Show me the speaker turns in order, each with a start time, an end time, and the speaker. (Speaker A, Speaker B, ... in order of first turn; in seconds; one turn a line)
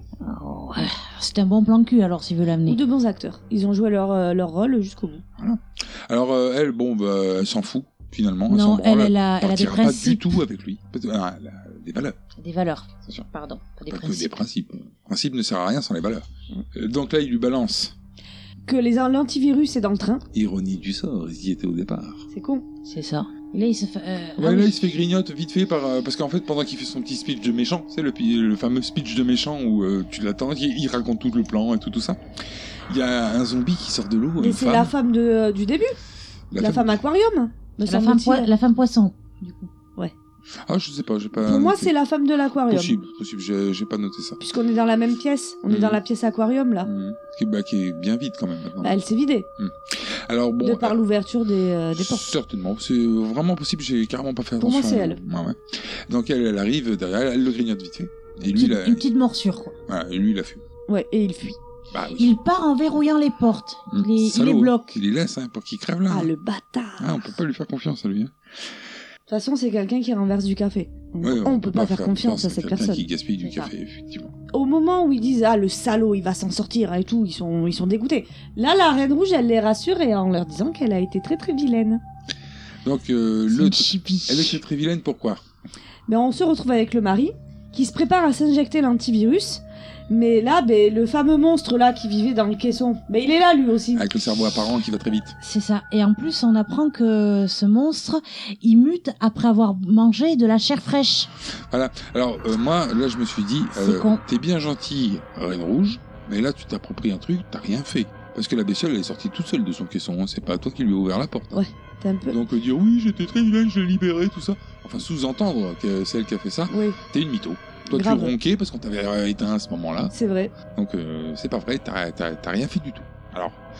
Speaker A: 0.2-2.8
Speaker B: 2.7-5.2
Speaker C: 5.4-12.2
Speaker A: 8.5-10.4
Speaker A: 12.4-14.4
Speaker C: 13.9-17.9
Speaker B: 18.7-20.2
Speaker C: 20.3-22.2
Speaker B: 22.3-22.6
Speaker A: 22.8-24.8
Speaker C: 24.4-32.2
Speaker C: 32.9-34.9
Speaker B: 34.4-35.9
Speaker C: 36.5-37.0
Speaker B: 36.6-38.5
Speaker A: 37.8-39.7
Speaker C: 40.6-41.9
Speaker B: 41.4-43.0
Speaker C: 42.7-44.4
Speaker B: 44.4-46.9
Speaker C: 45.7-46.0
Speaker C: 46.8-49.0
Speaker B: 48.8-49.5
Speaker C: 49.6-51.0
Speaker B: 50.6-52.2
Speaker C: 52.0-59.0
Speaker B: 54.6-55.2
Speaker A: 58.5-59.8
Speaker C: 59.9-60.6
Speaker B: 60.9-61.6
Speaker C: 61.9-62.3
Speaker A: 62.1-65.0
Speaker C: 63.9-66.3
Speaker B: 66.1-67.3
Speaker C: 67.0-68.3
Speaker B: 69.3-73.0
Speaker C: 71.2-74.3
Speaker A: 73.4-73.7
Speaker B: 74.5-82.0
Speaker C: 82.8-85.4
Speaker A: 83.5-84.6
Speaker B: 86.1-94.0
Speaker C: 93.9-95.3
Speaker A: 95.4-101.3
Speaker C: 101.7-111.6
Speaker A: 103.7-104.2
Speaker B: 111.5-112.4
Speaker C: 112.3-120.1
Speaker B: 116.7-117.0
Speaker B: 117.9-118.3
Speaker B: 120.1-120.5
Speaker C: 120.7-123.6